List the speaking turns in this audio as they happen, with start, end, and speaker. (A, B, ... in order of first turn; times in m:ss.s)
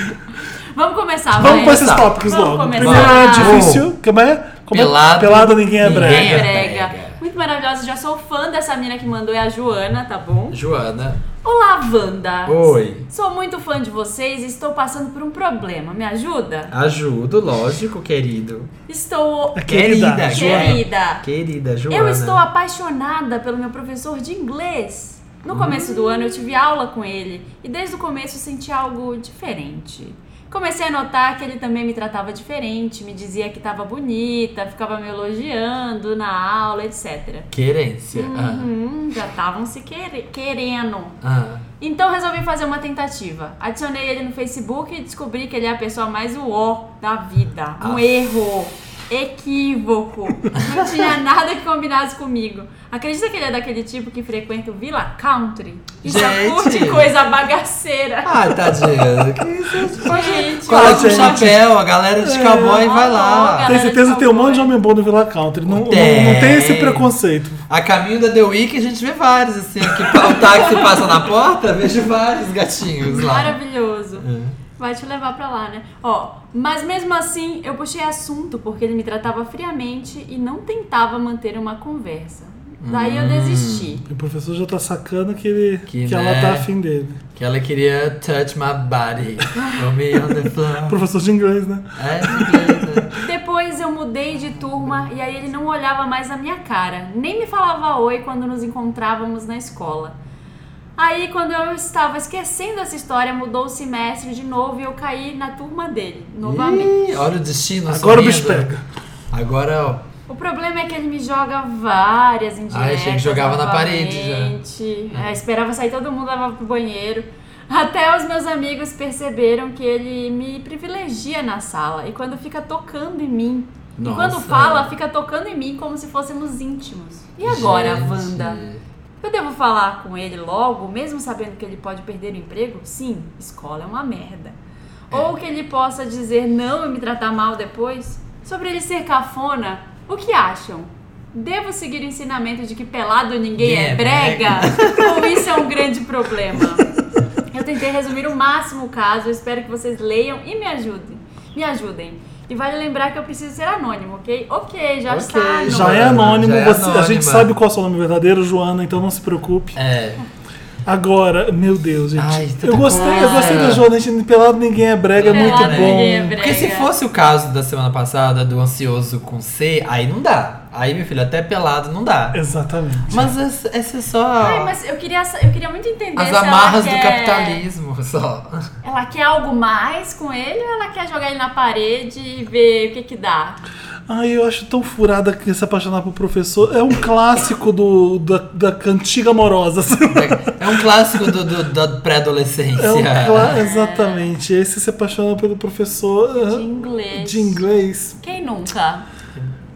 0:00.7-0:03.6 A
0:01.4-0:06.5 B
0:01.4-0:02.1 C
0:02.8-0:03.8 C
0:04.7-0:07.2 C
0:05.8-0:10.6 A
0:10.5-0:11.2 C
0:11.4-0:16.7 A
0:12.5-0:13.1 C
0:16.7-0:18.7 C
0:18.9-0:21.2 A
0:19.5-0:20.8 B
0:19.7-0:22.4 C
0:21.9-0:37.5 A
0:25.5-0:26.3 C
0:37.5-0:38.7 C
0:38.1-0:41.2 A
0:41.2-0:41.6 C
0:41.8-0:58.4 A
0:47.8-0:48.1 C
0:50.6-0:50.8 C
0:56.0-0:57.1 C
0:58.2-1:03.7 C
1:00.0-1:01.5 A
1:00.7-1:01.6 B
1:02.2-1:02.8 B
1:02.7-1:04.7 A
1:03.6-1:07.6 B
1:05.6-1:07.1 C
1:07.7-1:13.6 C
1:13.1-1:14.2 A
1:14.2-1:14.5 C
1:14.8-1:24.0 A
1:22.8-1:23.9 C
1:24.0-1:27.2 B
1:25.9-1:26.7 C
1:27.4-1:31.0 C
1:30.8-1:32.6 B
1:32.0-1:33.2 C
1:33.1-1:40.1 A
1:41.0-1:47.1 A
1:46.4-1:48.7 C
1:47.9-1:48.8 B
1:49.3-1:50.0 C
1:50.3-2:08.6 A
1:52.7-1:54.5 C
1:55.1-1:55.4 C
2:04.0-2:04.9 C
2:07.4-2:08.8 C
2:09.2-2:14.5 A
2:15.1-2:26.9 A
2:23.6-2:25.6 C
2:27.5-2:36.2 A
2:35.1-2:37.5 C
2:35.7-2:39.8 B
2:39.7-2:40.2 C
2:40.8-2:46.4 B
2:42.2-2:43.8 C
2:42.8-2:43.7 A
2:45.1-2:52.4 C
2:45.3-2:46.9 A
2:52.3-2:53.3 B
2:53.1-2:54.7 C
2:54.4-2:57.6 A
2:56.2-2:58.6 C
2:58.8-3:03.6 A
3:04.1-3:10.7 B
3:10.1-3:13.6 C
3:12.8-3:18.2 B
3:13.4-3:14.3 A
3:16.4-3:17.6 A
3:18.2-3:19.0 A